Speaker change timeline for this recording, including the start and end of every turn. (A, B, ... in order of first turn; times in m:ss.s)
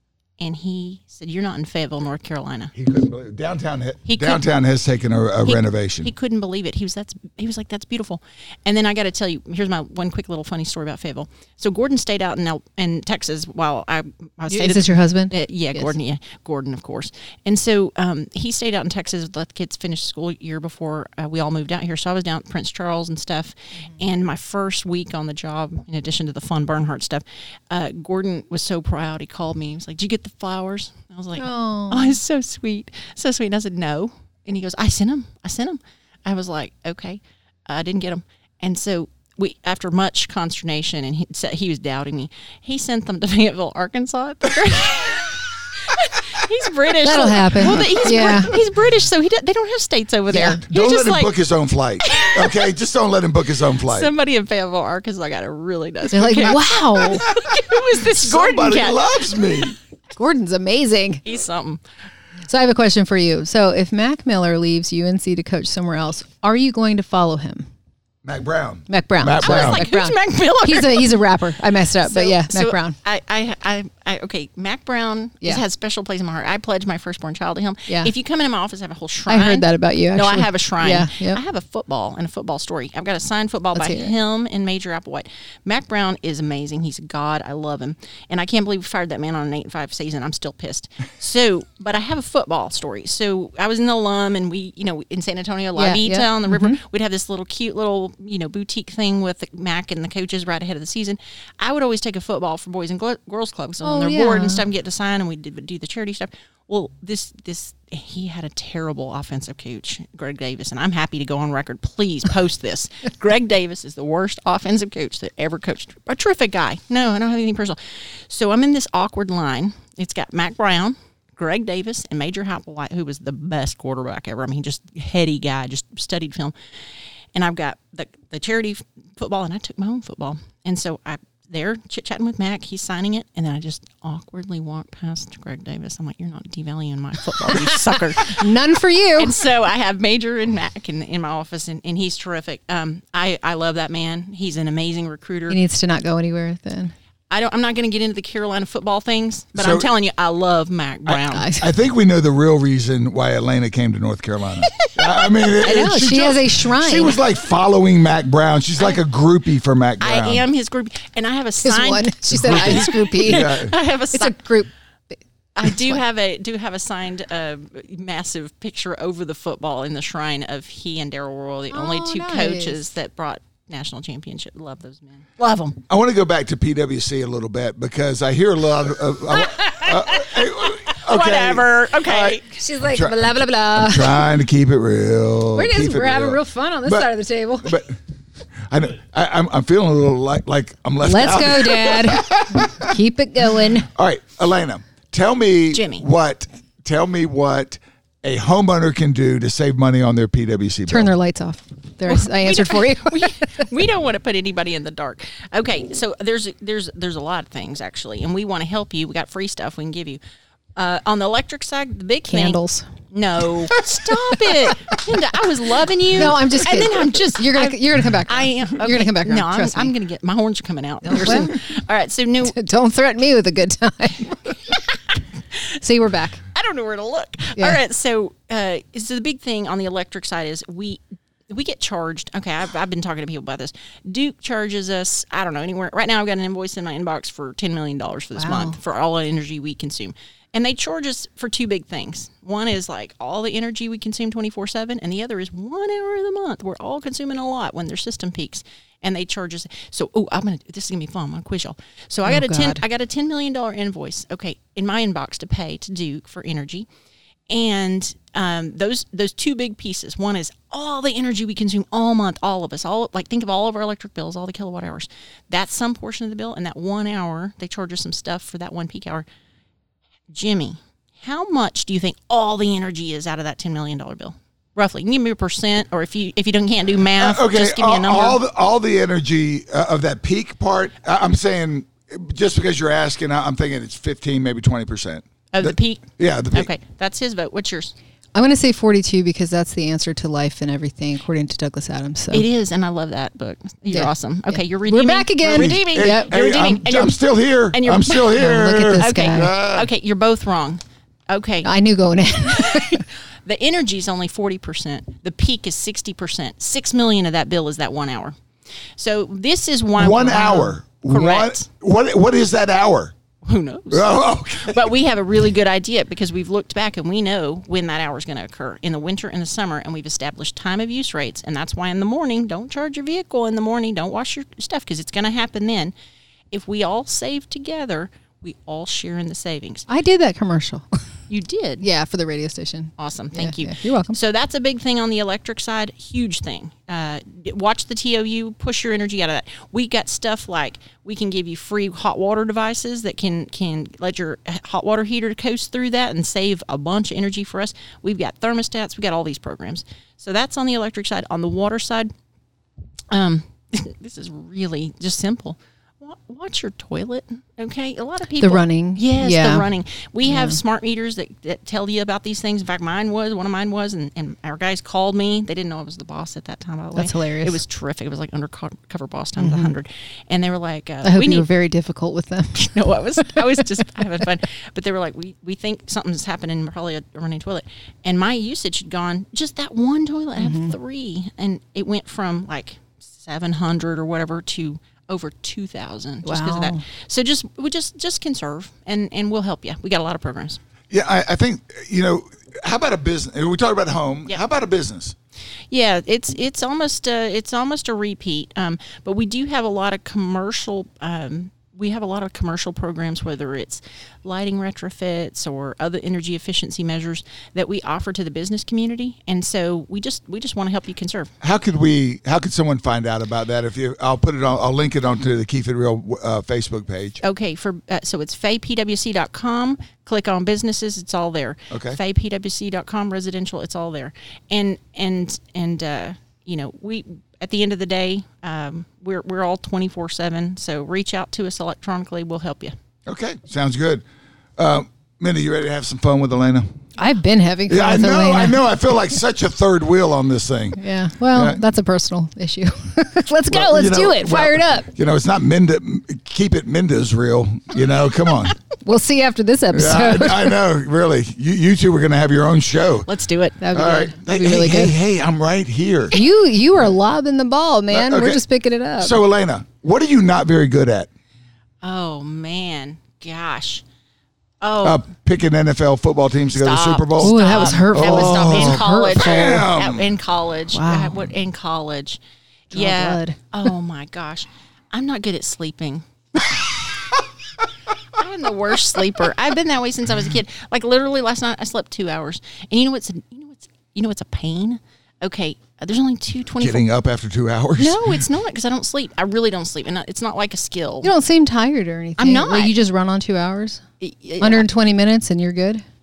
0:00.4-0:02.7 A
0:02.7-0:06.1 B
0:04.1-0:04.4 A
0:05.4-0:51.3 A
0:14.5-0:15.9 C
0:31.4-0:32.2 C
0:47.0-0:48.5 C
0:50.3-0:50.6 C
0:50.6-0:54.1 B
0:52.0-0:52.7 A
0:53.8-0:59.7 A
0:56.1-0:57.3 C
0:57.4-0:59.8 B
1:00.2-1:01.2 C
1:01.2-1:01.8 A
1:02.4-1:07.7 C
1:08.2-1:09.8 B
1:08.9-1:13.0 C
1:09.4-1:11.2 A
1:12.0-2:06.5 A
1:19.3-1:21.4 C
1:23.7-1:24.1 C
1:35.8-1:36.8 C
1:43.8-1:44.6 C
2:07.3-2:18.5 A
2:17.5-2:19.3 C
2:19.2-2:25.6 A
2:25.5-2:26.9 C
2:27.3-2:31.4 A
2:29.5-2:29.9 B
2:31.1-2:40.4 B
2:31.3-2:31.7 C
2:35.6-2:37.2 C
2:40.0-2:44.4 A
2:41.6-2:43.5 C
2:42.3-2:43.7 B
2:44.1-2:44.7 C
2:45.5-2:55.8 A
2:45.6-2:46.0 C
2:51.7-2:52.8 C
2:55.9-3:08.0 B
2:59.3-3:02.6 A
3:02.6-3:04.2 C
3:05.5-3:07.8 C
3:08.6-3:12.9 B
3:11.0-3:13.9 C
3:13.8-3:21.1 B
3:15.7-3:16.0 A
3:20.9-3:23.6 C
3:22.1-3:30.2 A
3:30.8-3:42.6 A
3:32.3-3:32.9 C
3:33.7-3:35.2 C
3:36.1-3:39.9 C
3:41.0-3:41.6 C
3:42.4-3:44.5 C
3:45.8-3:46.4 C
3:46.5-4:16.9 A
3:58.4-3:58.8 C
4:12.2-4:12.8 C
4:17.5-4:29.2 A
4:30.3-4:38.4 A
4:37.2-4:46.7 B
4:45.5-4:47.9 A
4:48.3-4:52.4 C
4:52.3-5:01.7 A
4:53.9-4:56.3 C
4:55.5-4:59.9 B
4:58.3-4:59.5 C
5:01.6-5:03.0 C
5:02.5-5:08.4 A
5:09.0-5:11.6 A
5:10.0-5:13.1 B
5:13.4-5:25.9 A
5:13.9-5:14.8 B
5:26.5-5:29.9 A
5:29.9-5:31.0 C
5:31.3-5:31.8 A
5:31.8-5:34.2 C
5:33.0-5:52.1 A
5:53.1-6:11.5 A
5:58.4-5:59.6 C
6:00.2-6:00.6 C
6:06.9-6:07.6 C
6:09.4-6:09.7 C
6:11.0-6:13.9 C
6:12.5-6:30.6 A
6:20.4-6:20.7 C
6:26.2-6:26.8 C
6:30.9-6:35.2 B
6:35.7-6:51.3 A
6:51.4-6:57.2 B
6:57.2-7:12.8 A
7:01.7-7:02.0 B
7:13.1-7:14.0 B
7:14.6-7:16.8 B
7:17.0-7:18.6 C
7:17.7-7:21.6 B
7:20.8-7:24.9 C
7:23.5-7:28.5 B
7:28.8-7:30.6 C
7:29.7-7:33.1 B
7:33.0-7:33.6 A
7:33.6-7:34.9 C
7:33.7-7:36.2 B
7:36.1-7:39.2 C
7:37.9-7:38.4 B
7:39.0-7:41.1 B
7:41.8-7:43.8 A
7:44.6-7:45.0 A
7:44.8-7:50.1 B
7:46.5-7:52.2 A
7:47.2-7:49.6 C
7:50.7-7:51.3 C
7:52.7-7:56.7 A
7:52.7-7:53.4 C
7:58.2-8:06.8 A
8:06.6-8:08.1 B
8:07.8-8:11.1 A
8:11.0-8:13.8 C
8:12.2-8:12.7 A
8:14.0-8:14.7 A
8:14.4-8:15.8 C